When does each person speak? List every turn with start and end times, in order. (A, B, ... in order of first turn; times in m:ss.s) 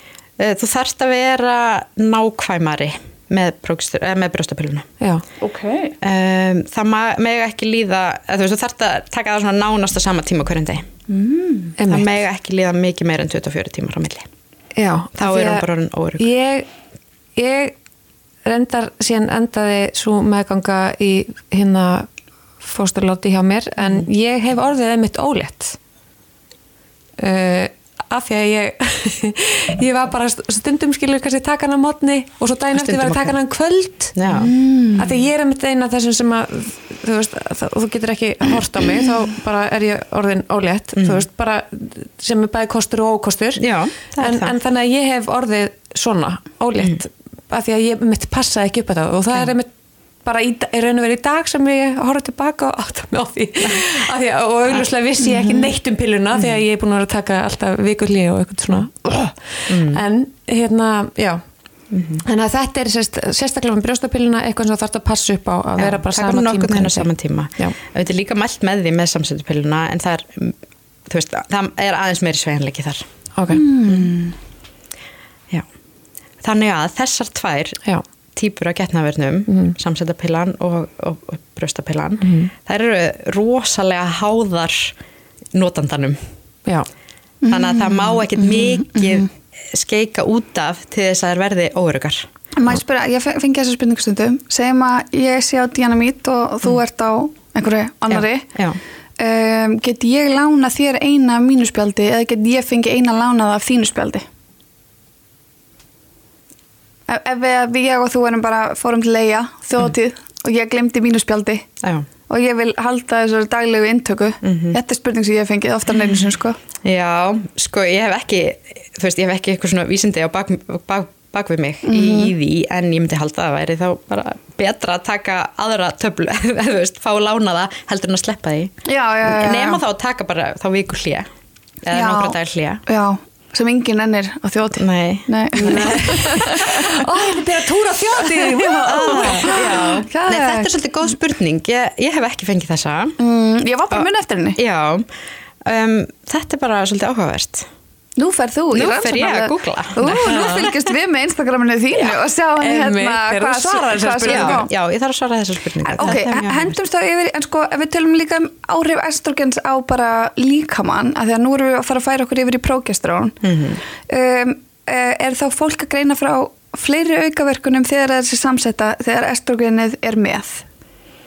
0:00.4-0:04.9 A
0:05.4-0:05.9 B
0:06.0-0:10.9 A
0:11.1-0:11.7 B
0:11.8-0:12.1 C
0:11.8-0:14.3 A
0:14.7-0:15.6 C
0:15.2-0:16.3 A
0:16.2-0:16.7 C
0:17.3-0:17.7 C
0:18.4-0:22.1 C
0:22.6-0:25.8 C
0:27.2-0:34.4 C
0:32.7-0:33.4 A
0:34.1-0:34.5 A
0:34.3-0:35.0 B
0:35.0-0:43.6 C
0:41.0-0:41.2 A
0:43.6-0:44.5 A
0:44.2-0:49.7 C
0:50.2-1:01.4 C
0:55.2-0:55.7 B
0:59.7-1:00.0 A
1:01.9-1:02.2 A
1:02.2-1:07.7 C
1:05.8-1:10.6 A
1:11.1-1:13.1 A
1:13.4-1:13.6 C
1:13.5-1:14.4 B
1:16.4-1:17.8 A
1:18.3-1:24.9 A
1:19.5-1:19.8 C
1:22.2-1:22.5 C
1:25.5-1:26.2 A
1:27.4-1:29.2 B
1:27.5-1:32.3 A
1:32.6-1:38.4 B
1:38.1-1:38.8 A
1:39.2-1:44.2 B
1:47.1-1:51.7 B
1:52.3-1:56.6 B
1:54.4-1:54.8 A
1:56.8-2:11.3 A
2:01.8-2:02.3 B
2:08.8-2:09.8 B
2:11.8-2:12.8 A
2:11.9-2:17.0 B
2:14.8-2:16.5 A
2:15.6-2:20.0 C
2:18.3-2:20.7 B
2:18.8-2:23.2 A
2:23.2-2:24.6 B
2:24.6-2:25.1 A
2:25.6-2:27.7 A
2:28.2-2:34.7 B
2:28.7-2:30.7 A
2:30.2-2:30.7 C
2:32.6-2:34.6 C
2:34.2-2:36.7 A
2:35.9-2:43.4 B
2:43.4-2:43.8 A
2:44.1-2:50.6 B